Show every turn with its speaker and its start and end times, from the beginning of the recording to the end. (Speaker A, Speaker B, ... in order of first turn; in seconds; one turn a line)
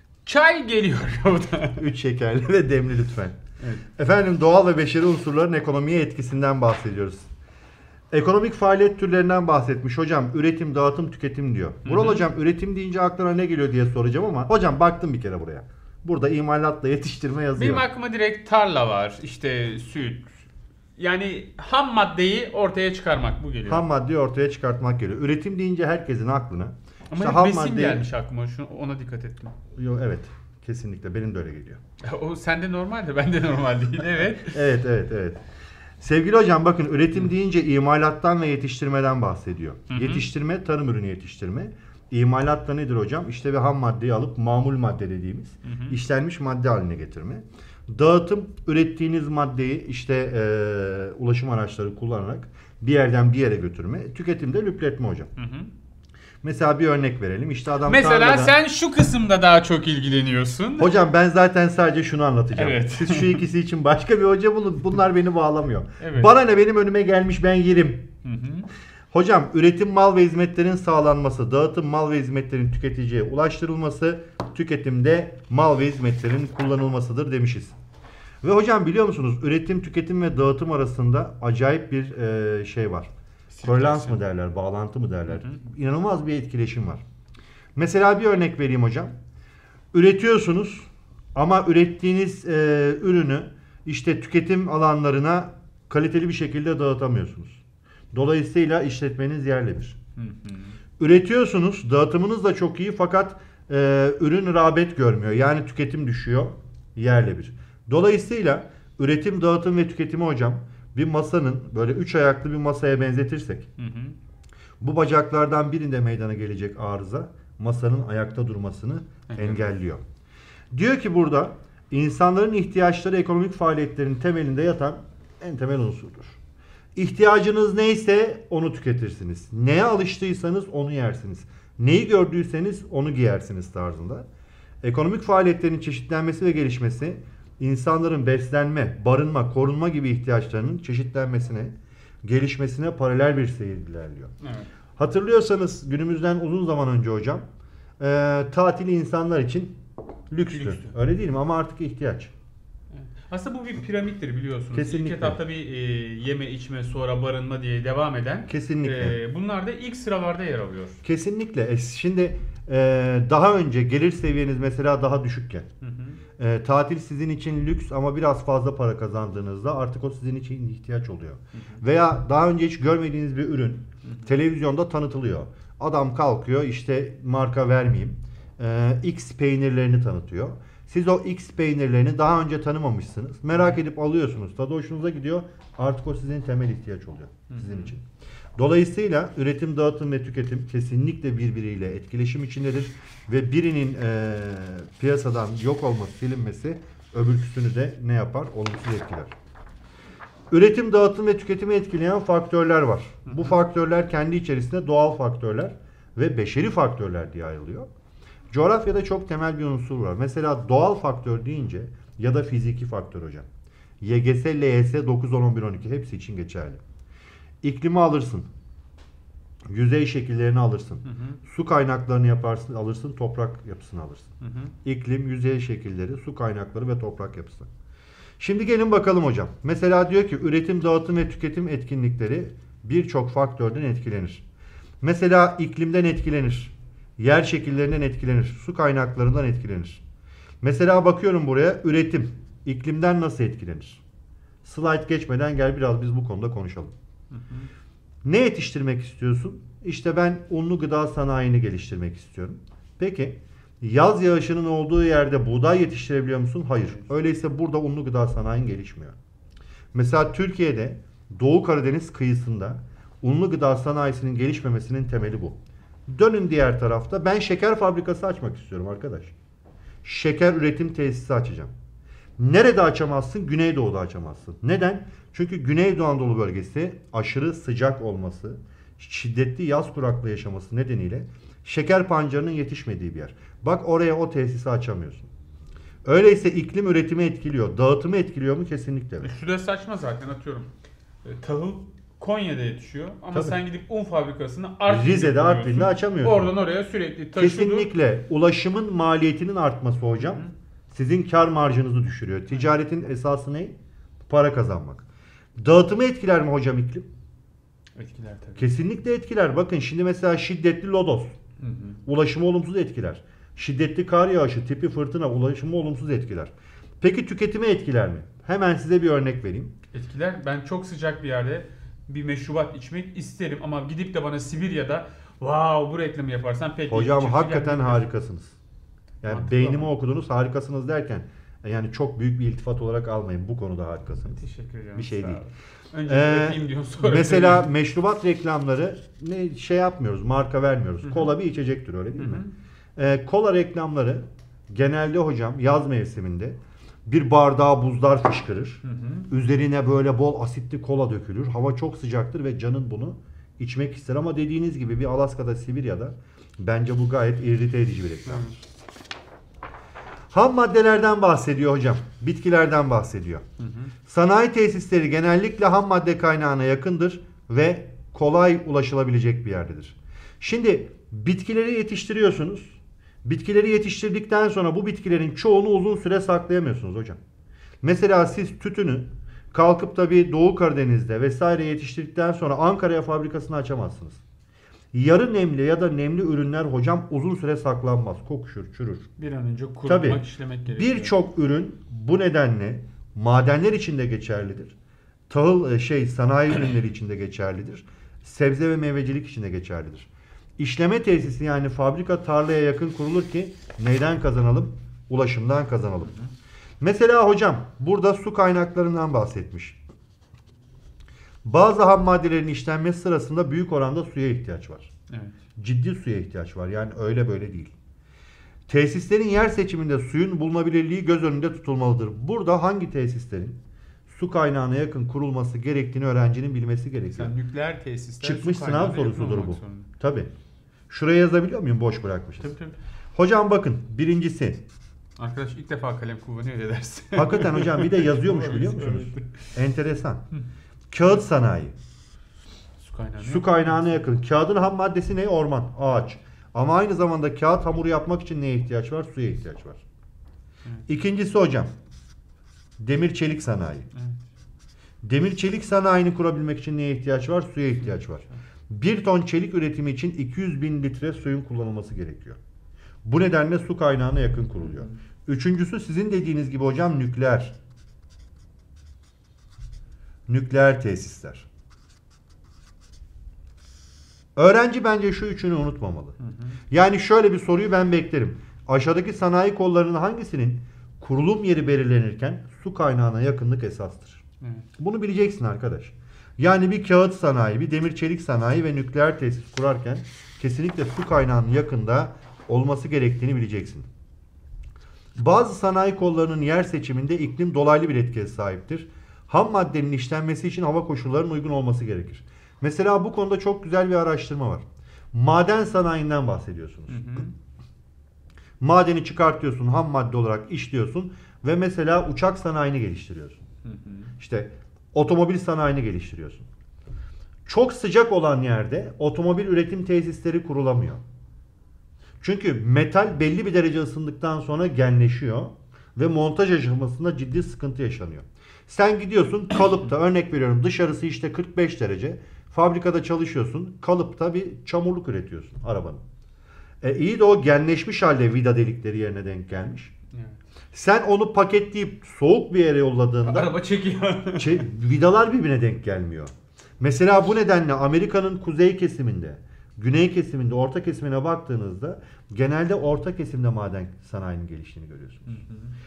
Speaker A: 0.3-1.9
Speaker B: 1.8-3.4
Speaker A: 3.6-3.9
Speaker B: 3.9-7.3
Speaker B: 8.1-17.8
Speaker A: 11.8-12.2
Speaker A: 17.6-20.4
Speaker A: 21.0-23.9
Speaker B: 23.7-28.1
Speaker A: 27.1-29.6
Speaker B: 29.8-31.8
Speaker A: 32.0-34.6
Speaker B: 34.4-35.4
Speaker B: 36.0-55.3
Speaker A: 39.9-40.3
Speaker A: 45.6-46.0
Speaker A: 55.4-55.7
Speaker B: 56.4-58.5
Speaker A: 57.9-60.9
Speaker B: 60.8-68.1
Speaker A: 62.5-63.4
Speaker A: 66.0-66.3
Speaker A: 68.2-68.7
Speaker B: 69.1-77.8
Speaker B: 78.4-83.1
Speaker A: 83.5-84.2
Speaker B: 83.6-87.0
Speaker A: 85.3-85.6
Speaker B: 87.8-89.1
Speaker B: 89.9-97.6
Speaker B: 98.1-100.0
Speaker A: 100.2-100.7
Speaker B: 101.0-113.7
Speaker A: 113.8-114.2
Speaker B: 114.8-120.0
Speaker A: 119.3-119.7
Speaker B: 120.7-126.4
Speaker B: 127.0-134.2
Speaker B: 134.8-144.3
Speaker A: 144.4-144.7
Speaker B: 145.0-147.5
Speaker B: 148.0-149.8
Speaker B: 150.3-152.3
Speaker A: 150.5-150.9
Speaker A: 153.0-161.0
Speaker B: 154.7-155.4
Speaker B: 158.5-159.2
Speaker B: 161.0-165.7
Speaker A: 165.8-166.2
Speaker B: 166.4-188.0
Speaker A: 171.5-171.8
Speaker A: 174.0-174.3
Speaker A: 187.5-187.9
Speaker B: 188.6-199.3
Speaker B: 200.5-207.9
Speaker A: 203.3-203.6
Speaker B: 208.5-213.5
Speaker B: 214.0-216.8
Speaker B: 217.6-218.5
Speaker B: 219.7-224.3
Speaker A: 221.1-221.4
Speaker A: 224.4-224.7
Speaker B: 224.8-227.7
Speaker B: 228.4-234.4
Speaker B: 235.0-240.0
Speaker B: 240.6-244.0
Speaker B: 244.6-246.9
Speaker A: 247.3-247.7
Speaker B: 248.2-259.2
Speaker B: 259.9-269.3
Speaker B: 270.0-271.7
Speaker B: 272.4-285.3
Speaker B: 286.0-289.3
Speaker A: 289.2-290.7
Speaker A: 291.2-297.9
Speaker B: 294.9-296.5
Speaker B: 297.4-303.8
Speaker A: 300.2-300.5
Speaker B: 304.3-305.1
Speaker B: 305.6-307.1
Speaker A: 308.0-308.7
Speaker B: 308.6-311.4
Speaker A: 311.6-312.0
Speaker B: 312.1-319.7
Speaker A: 319.9-328.1
Speaker B: 326.9-328.6
Speaker B: 329.2-334.4
Speaker A: 329.3-329.9
Speaker A: 334.4-337.7
Speaker B: 335.0-335.4
Speaker B: 336.1-342.4
Speaker A: 342.2-342.5
Speaker B: 343.0-358.6
Speaker A: 348.8-349.3
Speaker A: 358.3-358.6
Speaker B: 360.3-363.4
Speaker A: 363.6-363.9
Speaker B: 364.1-377.2
Speaker B: 377.8-384.2
Speaker B: 384.9-389.1
Speaker A: 389.2-391.1
Speaker B: 389.9-390.2
Speaker B: 390.8-394.7
Speaker B: 395.3-406.1
Speaker B: 406.8-409.8
Speaker B: 411.4-414.9
Speaker A: 415.1-415.4
Speaker B: 415.6-417.7
Speaker B: 418.7-423.6
Speaker B: 424.1-427.3
Speaker A: 427.1-429.9
Speaker B: 428.2-430.3
Speaker B: 430.9-432.5
Speaker A: 432.4-432.8
Speaker B: 433.1-434.6
Speaker A: 435.2-439.5
Speaker B: 437.1-440.2
Speaker B: 440.9-441.8
Speaker A: 442.8-444.0
Speaker B: 443.2-449.8
Speaker B: 450.9-451.7
Speaker B: 452.8-453.9
Speaker A: 453.9-454.2
Speaker B: 455.0-462.4
Speaker B: 463.0-467.5
Speaker A: 464.6-464.9
Speaker B: 470.3-471.5
Speaker B: 474.4-476.2
Speaker A: 476.2-476.6
Speaker B: 476.7-484.2
Speaker A: 484.4-484.7
Speaker B: 484.8-493.9
Speaker B: 495.2-507.1
Speaker A: 506.9-507.3
Speaker B: 508.6-513.4
Speaker A: 513.6-514.1
Speaker B: 514.2-516.5
Speaker B: 517.5-521.0
Speaker B: 522.2-536.0
Speaker B: 536.8-539.9
Speaker A: 540.1-540.4
Speaker B: 540.7-543.5
Speaker A: 543.2-544.6
Speaker B: 544.4-555.4
Speaker A: 555.3-555.8